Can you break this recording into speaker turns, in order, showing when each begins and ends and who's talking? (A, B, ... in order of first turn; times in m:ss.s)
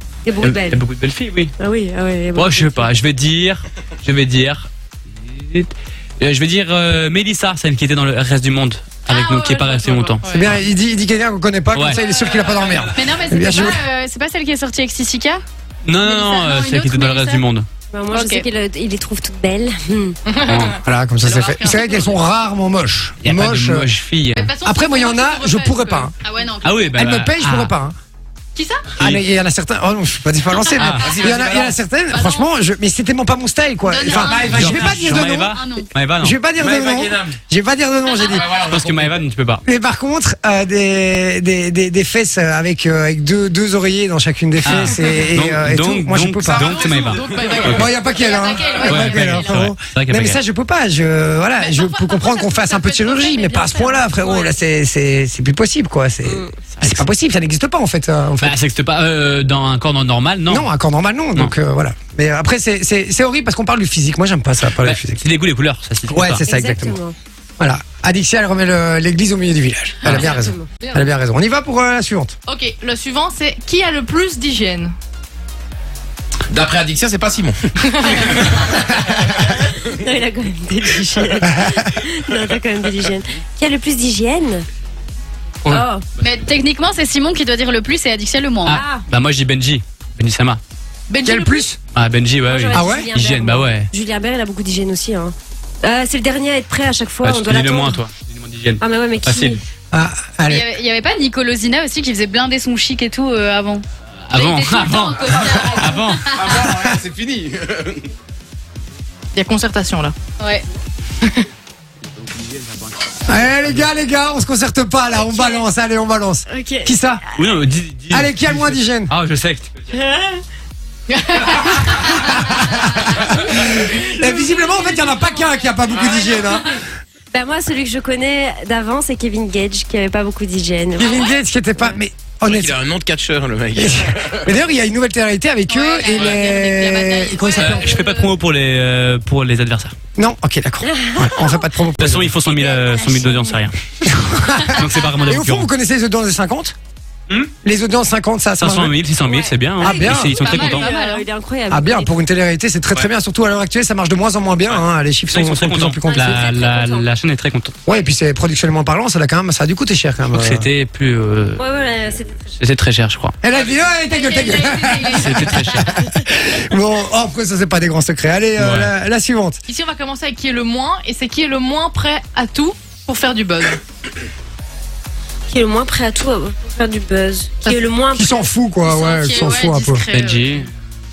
0:00.2-0:00.8 A
0:00.4-0:01.5 B
0:01.6-0:02.9 A
0:02.3-0:10.6 B
0:09.1-0:10.4 C
0:10.3-0:13.8 D
0:11.7-0:12.0 B
0:12.0-0:12.3 C
0:12.9-0:15.4 E
0:15.8-0:17.6 B
0:16.0-0:17.4 E
0:17.9-0:20.2 A
0:18.1-0:18.4 E
0:20.3-0:22.2 C
0:20.4-0:20.8 B
0:20.8-0:23.9 D
0:23.2-0:24.5 B
0:24.3-0:26.1 C
0:24.6-0:26.1 D
0:26.2-0:27.0 E
0:26.6-0:27.7 B
0:26.9-0:27.9 D
0:28.5-0:28.8 C
0:29.0-0:29.2 B
0:29.0-0:35.6 D
0:30.8-0:31.8 F
0:30.8-0:31.1 B
0:32.1-0:32.5 C
0:33.8-0:35.9 E
0:34.1-0:34.8 F
0:34.4-0:36.4 B
0:36.2-0:38.6 D
0:36.6-0:37.4 F
0:38.2-0:39.2 F
0:38.5-0:39.6 B
0:39.6-0:46.7 D
0:44.6-0:47.9 B
0:46.5-0:49.0 C
0:46.7-0:47.8 F
0:47.6-0:58.6 D
0:48.2-0:49.6 E
0:48.8-0:50.4 B
0:51.6-0:54.5 C
0:56.2-0:56.5 A
0:56.7-0:57.1 B
0:58.4-1:00.7 B
1:00.5-1:05.2 D
1:04.8-1:06.5 B
1:06.1-1:07.0 D
1:06.5-1:07.1 A
1:07.6-1:12.3 D
1:10.0-1:10.3 B
1:10.1-1:10.7 A
1:10.8-1:11.1 C
1:12.4-1:14.9 C
1:16.5-1:17.6 F
1:17.8-1:18.4 C
1:19.5-1:24.6 A
1:25.6-1:26.4 B
1:25.7-1:26.0 A
1:26.2-1:28.8 E
1:28.6-1:30.6 B
1:28.7-1:29.0 A
1:31.1-1:31.6 C
1:31.2-1:31.8 D
1:31.9-1:33.9 B
1:32.4-1:38.0 A
1:32.7-1:33.1 D
1:37.2-1:39.6 B
1:38.8-1:39.6 A
1:39.9-1:40.7 D
1:40.5-1:46.5 E
1:44.3-1:46.3 B
1:46.3-1:48.1 F
1:46.5-1:46.9 D
1:49.3-1:50.1 C
1:50.4-1:50.6 E
1:52.0-1:53.9 B
1:53.3-1:57.2 D
1:56.5-1:57.2 A
1:57.3-2:00.0 B
1:58.1-1:59.1 D
1:59.9-2:00.4 A
2:01.1-2:02.4 C
2:01.5-2:06.8 D
2:07.3-2:12.0 A
2:11.0-2:12.8 D
2:12.4-2:14.6 F
2:13.7-2:17.9 D
2:15.7-2:17.6 E
2:17.4-2:18.3 C
2:17.5-2:19.9 B
2:20.2-2:22.4 D
2:20.8-2:21.7 A
2:22.0-2:23.7 B
2:22.4-2:23.6 A
2:24.0-2:26.7 D
2:24.4-2:25.7 B
2:27.3-2:27.5 B
2:27.6-2:29.0 D
2:28.6-2:30.9 B
2:29.2-2:32.1 A
2:29.8-2:30.4 D
2:30.4-2:30.9 C
2:30.8-2:31.2 E
2:31.7-2:36.4 D
2:34.7-2:37.8 B
2:36.1-2:37.1 A
2:36.2-2:36.6 E
2:37.8-2:40.7 D
2:40.3-2:41.6 B
2:41.6-2:42.5 A
2:42.6-2:43.4 B
2:43.4-2:49.6 D
2:44.0-2:44.8 E
2:44.5-2:45.4 C
2:45.1-2:46.1 B
2:48.6-2:48.9 B
2:49.7-2:53.8 C
2:55.5-2:58.5 A
2:58.1-3:00.0 D
2:58.8-3:00.7 E
3:00.1-3:00.7 B